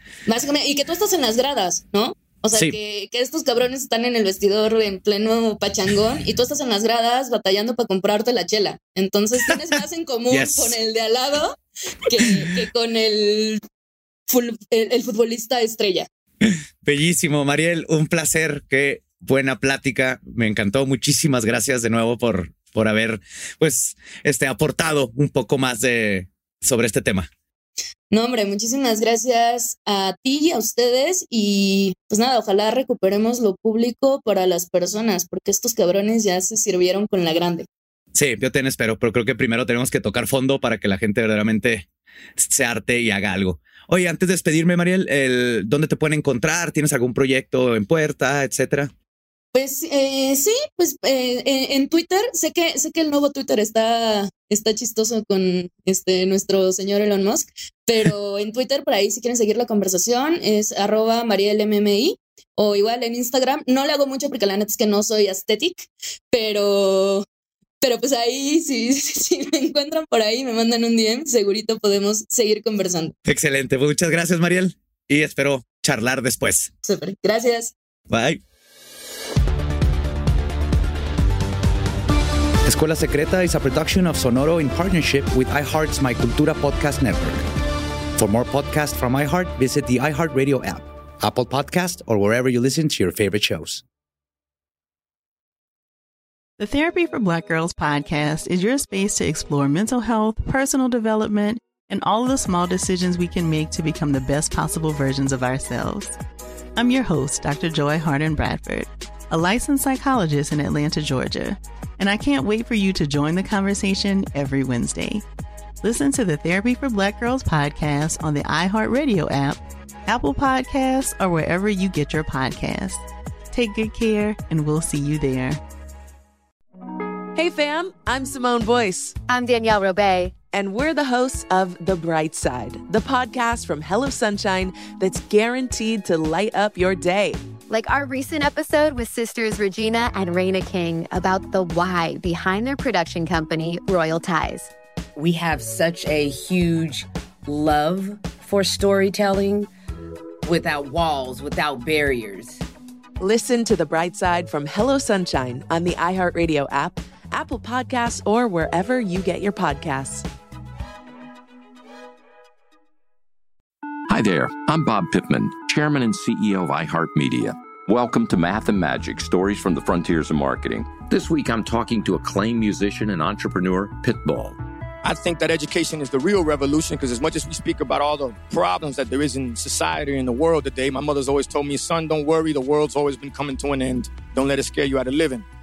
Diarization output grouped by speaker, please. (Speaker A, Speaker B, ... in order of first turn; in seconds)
Speaker A: 0.2-13.6, 14.3-16.1, 28.1-37.6, 49.5-67.2, 67.8-73.1, 76.8-77.7
Speaker B: 9.4-9.7, 10.3-10.8, 12.1-12.7, 16.4-27.3, 38.1-48.9, 73.2-76.7, 78.1-78.4, 82.7-87.4, 88.2-93.8
Speaker C: 96.6-106.2, 106.8-115.2, 115.8-125.6
Speaker D: 127.3-129.2, 130.5-137.4, 153.2-160.3
Speaker E: 129.3-130.3, 137.7-144.7
Speaker F: 145.2-149.7, 150.4-152.6
Speaker G: 164.1-174.6
Speaker H: 175.0-185.4